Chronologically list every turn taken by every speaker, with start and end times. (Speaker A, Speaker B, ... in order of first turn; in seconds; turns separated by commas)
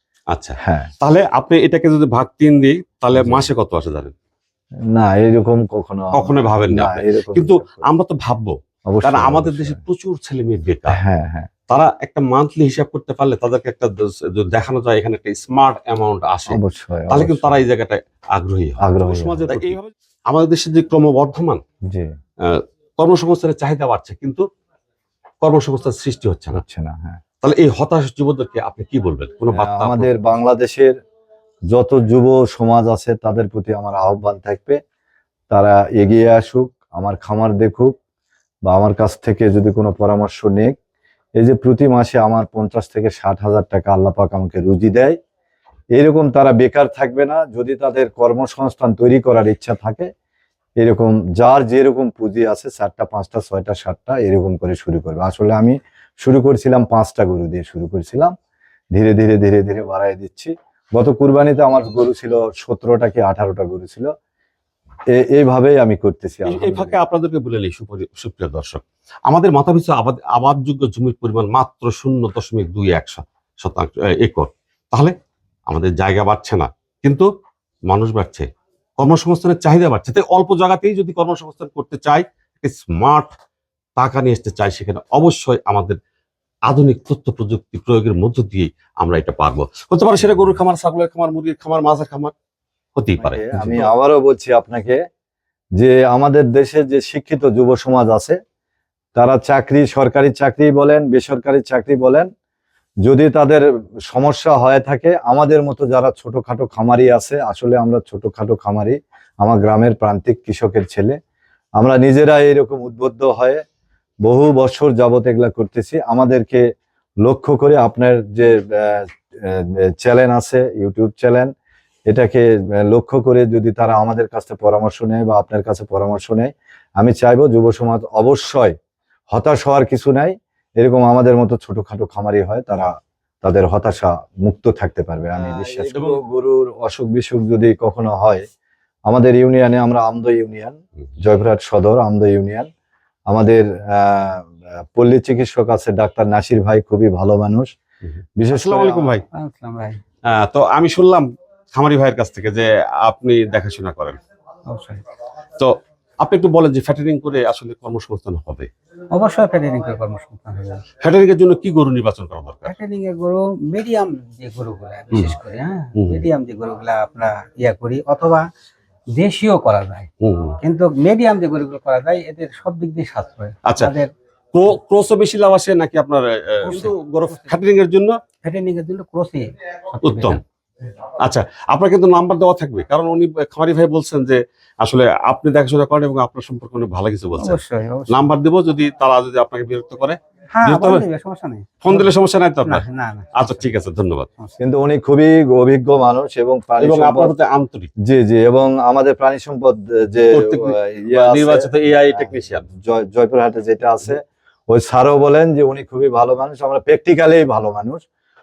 Speaker A: 0.3-4.1, Speaker B: 0.6-0.9, Speaker B: 3.1-3.5, Speaker B: 4.9-7.9, Speaker A: 6.1-11.0, Speaker B: 8.9-9.8, Speaker B: 10.9-11.5, Speaker A: 11.7-21.6, Speaker B: 16.5-17.6, Speaker B: 18.8-19.8, Speaker A: 22.4-24.4, Speaker A: 25.4-26.6, Speaker B: 26.6-27.2, Speaker A: 27.4-30.1, Speaker B: 29.5-30.9, Speaker B: 31.7-34.8, Speaker B: 35.5-37.9, Speaker B: 38.7-40.7, Speaker B: 41.4-45.2, Speaker B: 46.0-50.1, Speaker B: 50.8-58.3, Speaker B: 58.9-64.1, Speaker B: 65.1-67.0, Speaker A: 66.4-75.1, Speaker A: 75.7-77.3, Speaker A: 77.9-78.5, Speaker A: 79.0-83.3, Speaker A: 84.0-86.0, Speaker A: 86.7-92.3, Speaker A: 93.0-93.9, Speaker B: 93.2-95.0, Speaker B: 95.8-98.4, Speaker B: 99.1-102.3, Speaker B: 103.0-111.2, Speaker B: 111.8-113.6, Speaker B: 114.2-116.6, Speaker B: 117.2-121.5, Speaker B: 122.1-128.7, Speaker B: 129.3-132.9, Speaker B: 133.4-138.4, Speaker A: 135.9-136.2, Speaker B: 139.1-142.7, Speaker B: 143.3-147.7, Speaker A: 148.0-149.2, Speaker B: 148.4-149.2, Speaker C: 149.3-150.0, Speaker A: 150.3-154.2, Speaker C: 154.7-155.0, Speaker A: 155.6-158.7, Speaker C: 159.1-160.8, Speaker A: 161.0-162.7, Speaker C: 162.7-168.5, Speaker A: 165.9-166.3, Speaker C: 169.2-170.1, Speaker A: 170.2-170.6, Speaker C: 170.6-174.1, Speaker A: 173.6-173.9, Speaker A: 174.5-178.2, Speaker C: 176.6-177.6, Speaker C: 178.4-180.4, Speaker A: 180.0-180.4, Speaker A: 181.2-191.0, Speaker C: 187.4-188.3, Speaker C: 190.5-192.1, Speaker A: 191.8-194.3, Speaker C: 192.6-194.6, Speaker B: 194.6-197.3, Speaker A: 196.8-197.9, Speaker B: 198.0-208.0, Speaker A: 200.3-202.7